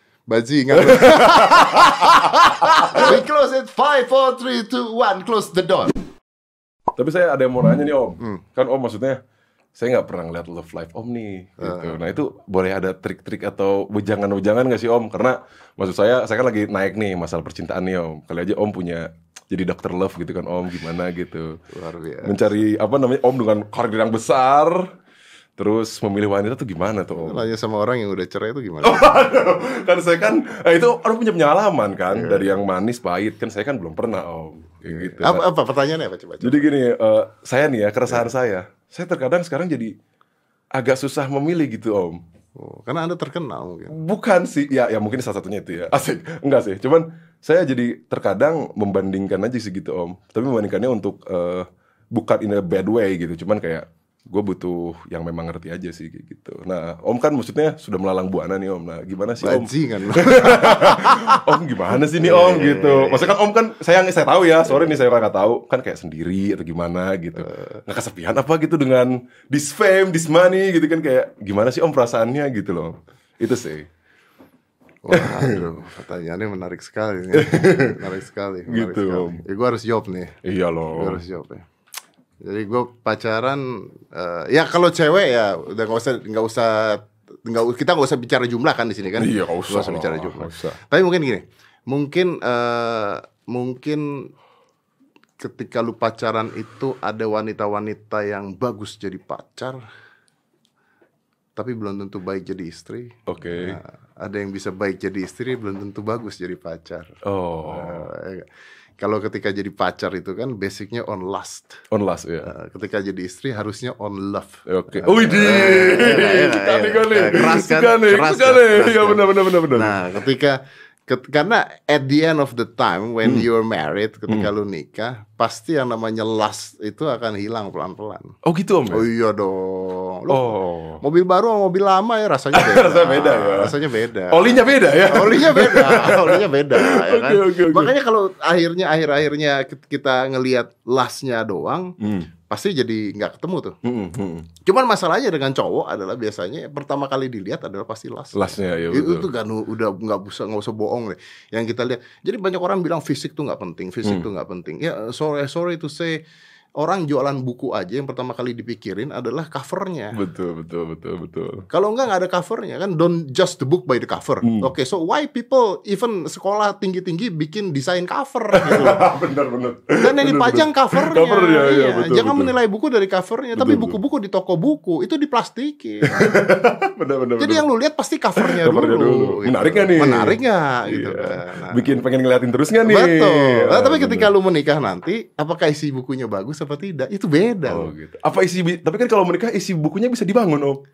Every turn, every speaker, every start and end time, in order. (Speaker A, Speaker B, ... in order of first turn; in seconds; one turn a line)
Speaker A: 0.3-5.9
Speaker B: 0.7-3.2
Speaker B: 7.0-9.2
Speaker B: 9.8-21.6
Speaker A: 11.6-12.0
Speaker A: 21.7-22.4
Speaker B: 22.2-24.8
Speaker B: 25.6-27.4
Speaker A: 27.1-29.1
Speaker B: 28.8-35.5
Speaker A: 32.1-32.5
Speaker A: 34.9-36.6
Speaker B: 36.4-39.9
Speaker B: 40.7-42.2
Speaker A: 42.5-43.9
Speaker B: 43.9-73.9
Speaker A: 59.4-63.4
Speaker A: 67.5-67.7
Speaker A: 75.0-80.3
Speaker B: 75.1-75.7
Speaker B: 77.3-78.0
Speaker B: 78.7-79.4
Speaker B: 80.4-81.2
Speaker A: 80.9-81.6
Speaker A: 82.4-94.3
Speaker B: 89.2-90.8
Speaker A: 95.4-99.8
Speaker A: 101.6-108.5
Speaker B: 103.3-103.8
Speaker B: 107.2-108.1
Speaker A: 109.0-111.8
Speaker B: 111.9-112.5
Speaker A: 112.4-128.3
Speaker B: 114.7-120.0
Speaker B: 123.2-123.5
Speaker B: 128.4-129.1
Speaker A: 128.9-134.4
Speaker B: 130.3-131.0
Speaker B: 132.5-137.9
Speaker A: 135.0-141.9
Speaker B: 142.0-142.3
Speaker A: 142.5-143.8
Speaker B: 143.8-144.5
Speaker A: 144.6-156.2
Speaker B: 148.3-149.3
Speaker A: 156.8-160.2
Speaker B: 160.2-161.7
Speaker A: 161.7-169.1
Speaker B: 164.4-164.7
Speaker B: 168.5-172.5
Speaker A: 170.0-176.3
Speaker B: 173.5-174.0
Speaker B: 176.1-177.6
Speaker A: 177.4-182.0
Speaker B: 178.4-184.3
Speaker A: 182.8-187.9
Speaker B: 187.7-190.8